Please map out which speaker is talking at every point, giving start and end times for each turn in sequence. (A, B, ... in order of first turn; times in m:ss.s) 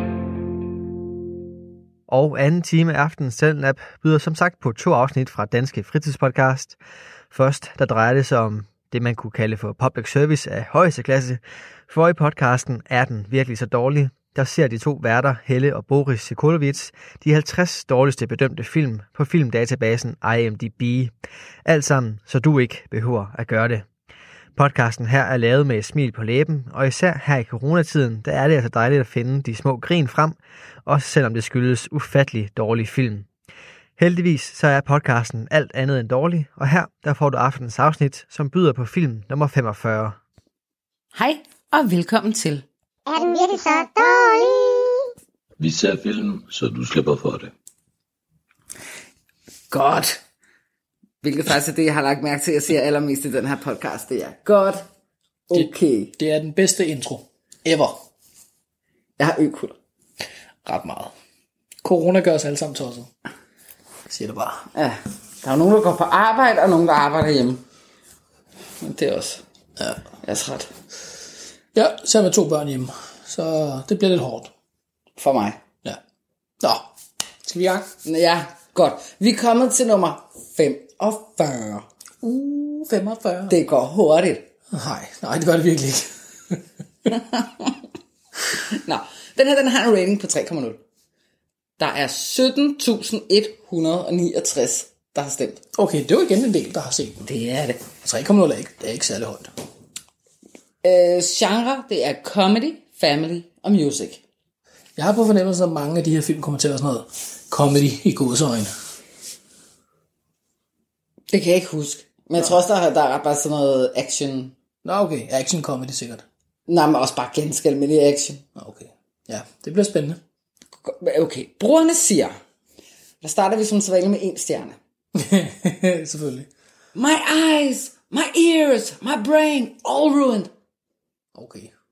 0:02.1-0:06.8 A
0:07.3-0:21.1 A
0:21.6-0:23.8 A
0:24.6-0:33.2 A
0:34.0-0:40.2 A
0:41.1-0:42.6 B
0:43.1-0:45.0 C
0:45.6-0:47.5 D
0:49.7-0:50.2 B
0:51.2-0:54.8 B
0:55.5-0:56.1 B
0:55.5-0:58.0 E
0:59.2-0:59.8 B
1:00.6-1:01.1 E
1:01.8-1:03.1 E
1:04.1-1:04.7 E
1:04.7-1:07.6 B
1:08.8-1:09.4 B
1:10.2-1:10.7 B
1:11.7-1:14.5 E
1:15.2-1:15.6 B
1:16.6-1:16.9 E
1:17.4-1:17.9 E
1:18.0-1:21.8 B
1:22.2-1:23.6 E
1:23.5-1:24.4 B
1:24.7-1:26.6 E
1:27.1-1:27.7 B
1:28.8-1:30.8 B
1:31.8-1:35.6 B
1:35.7-1:37.2 E
1:37.2-1:37.8 B
1:38.0-1:39.5 E
1:40.8-1:44.2 B
1:45.0-1:48.7 E
1:51.3-1:54.5 B
1:54.8-1:56.2 E
1:56.7-1:58.4 B
1:58.6-2:00.2 E
2:00.8-2:02.4 B
2:03.2-2:04.8 B
2:05.2-2:06.5 E
2:06.9-2:10.5 B
2:11.4-2:11.7 E